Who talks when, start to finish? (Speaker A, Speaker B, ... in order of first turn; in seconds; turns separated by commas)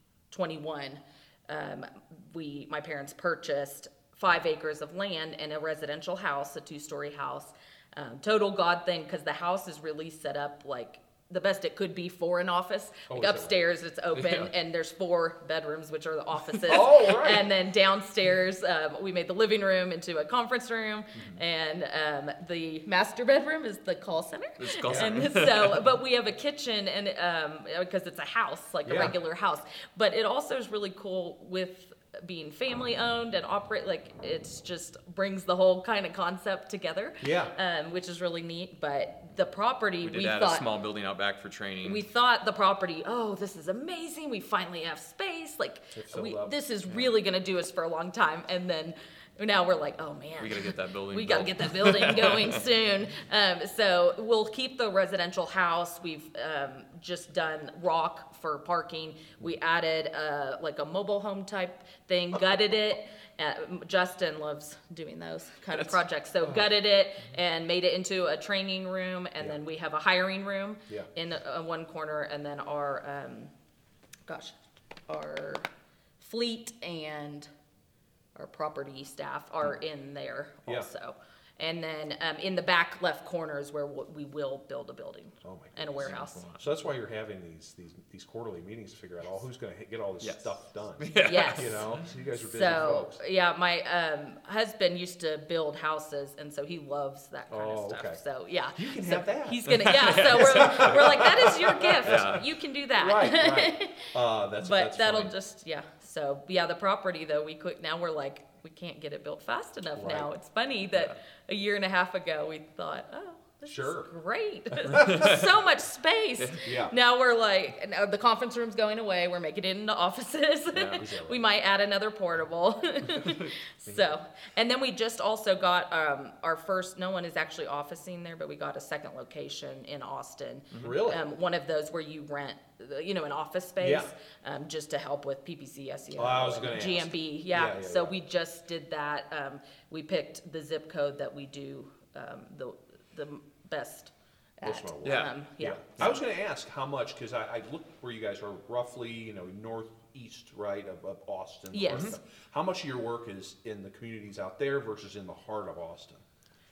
Speaker A: 0.3-40.6, Speaker B: 13.1-13.6, Speaker C: 14.1-14.5, Speaker B: 16.6-17.5, Speaker C: 24.6-25.8, Speaker B: 24.9-25.2, Speaker B: 28.9-29.1, Speaker B: 37.2-37.5, Speaker C: 40.0-42.0, Speaker A: 41.8-73.5, Speaker B: 45.9-46.5, Speaker C: 50.4-52.6, Speaker A: 74.3-74.5, Speaker A: 75.1-75.7, Speaker A: 76.2-77.5, Speaker A: 78.3-86.4, Speaker B: 85.4-93.2, Speaker C: 86.0-86.6, Speaker C: 90.2-92.0, Speaker A: 91.2-91.8, Speaker A: 92.4-145.9, Speaker B: 97.5-98.2, Speaker B: 98.8-102.4, Speaker C: 99.7-102.5, Speaker B: 102.9-105.3, Speaker B: 110.0-110.3, Speaker B: 113.7-114.1, Speaker C: 115.0-115.4, Speaker B: 116.6-116.9, Speaker C: 120.7-121.0, Speaker B: 120.9-121.4, Speaker C: 130.7-131.0, Speaker B: 130.8-131.2, Speaker B: 133.8-134.1, Speaker B: 136.1-138.1, Speaker B: 144.6-156.2, Speaker C: 145.0-145.3, Speaker A: 151.7-152.2, Speaker C: 151.9-152.2